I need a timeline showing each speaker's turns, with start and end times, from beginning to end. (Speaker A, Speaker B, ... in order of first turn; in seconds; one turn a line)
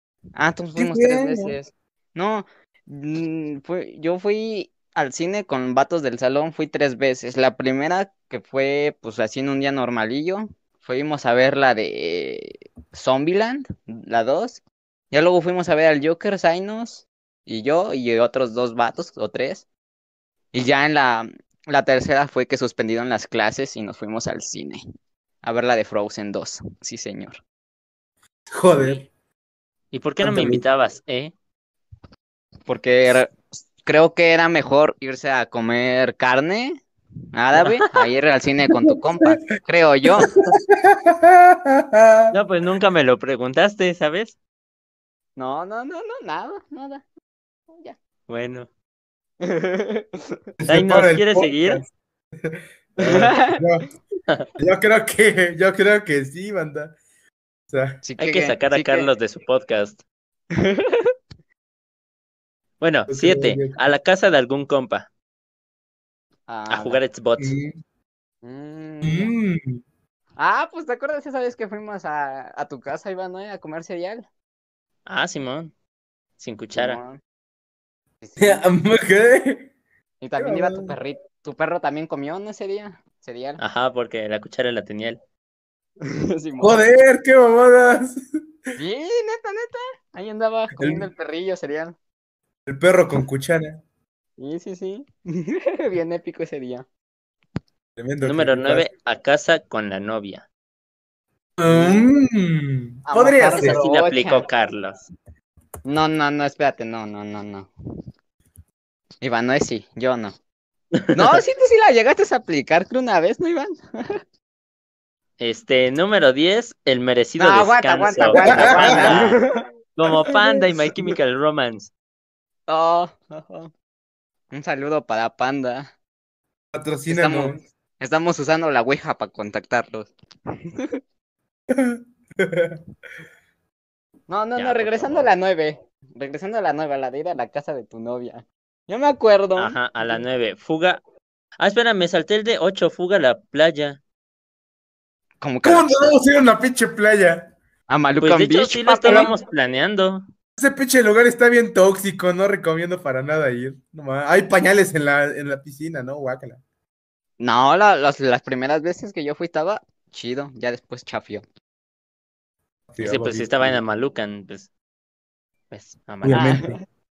Speaker A: 0.4-19.6
Speaker B: 0.8-1.5
Speaker A: 20.5-24.8
Speaker A: 25.4-27.4
Speaker B: 28.5-29.1
Speaker C: 29.9-31.3
Speaker B: 30.2-30.6
Speaker A: 32.7-36.8
Speaker A: 37.3-40.3
Speaker B: 40.2-42.4
Speaker C: 42.3-44.4
Speaker A: 45.4-47.0
Speaker C: 48.3-48.7
Speaker A: 49.4-50.2
Speaker B: 50.6-51.9
Speaker C: 50.7-51.8
Speaker B: 52.4-53.9
Speaker A: 53.0-53.6
Speaker B: 54.6-57.0
Speaker B: 57.7-58.0
Speaker A: 58.0-59.1
Speaker C: 58.2-60.0
Speaker A: 60.5-61.1
Speaker C: 62.8-65.1
Speaker B: 63.1-63.7
Speaker A: 66.5-67.0
Speaker C: 66.7-67.5
Speaker B: 67.4-67.8
Speaker A: 68.4-69.3
Speaker B: 69.0-69.8
Speaker A: 70.4-74.2
Speaker C: 75.1-75.7
Speaker C: 76.4-77.0
Speaker A: 76.7-77.2
Speaker A: 78.2-78.7
Speaker B: 78.4-79.7
Speaker A: 80.2-83.6
Speaker B: 80.4-80.9
Speaker C: 83.6-85.2
Speaker A: 86.0-86.8
Speaker B: 86.6-88.2
Speaker A: 88.8-92.0
Speaker B: 90.8-91.1
Speaker B: 92.7-93.8
Speaker A: 94.4-96.9
Speaker B: 98.0-98.9
Speaker C: 98.2-100.5
Speaker B: 101.6-103.8
Speaker A: 101.7-102.0
Speaker A: 103.1-104.5
Speaker C: 103.5-105.1
Speaker A: 105.8-107.7
Speaker A: 109.2-110.4
Speaker C: 110.9-111.4
Speaker A: 111.1-113.8
Speaker C: 115.4-119.4
Speaker A: 117.4-119.6
Speaker B: 118.4-119.3
Speaker C: 120.0-121.9
Speaker A: 122.7-123.7
Speaker A: 124.5-125.9
Speaker B: 126.7-127.6
Speaker A: 127.1-130.1
Speaker A: 130.7-131.0
Speaker B: 131.7-132.8
Speaker A: 134.3-139.8
Speaker C: 134.6-135.3
Speaker C: 139.6-141.0
Speaker C: 141.6-144.0
Speaker A: 145.4-146.1
Speaker B: 145.6-147.5
Speaker A: 147.9-149.3
Speaker C: 148.2-150.2
Speaker B: 149.1-149.3
Speaker B: 150.6-156.6
Speaker A: 157.4-161.4
Speaker B: 162.9-163.8
Speaker C: 163.0-164.7
Speaker C: 165.7-166.6
Speaker B: 166.2-166.8
Speaker A: 166.3-166.7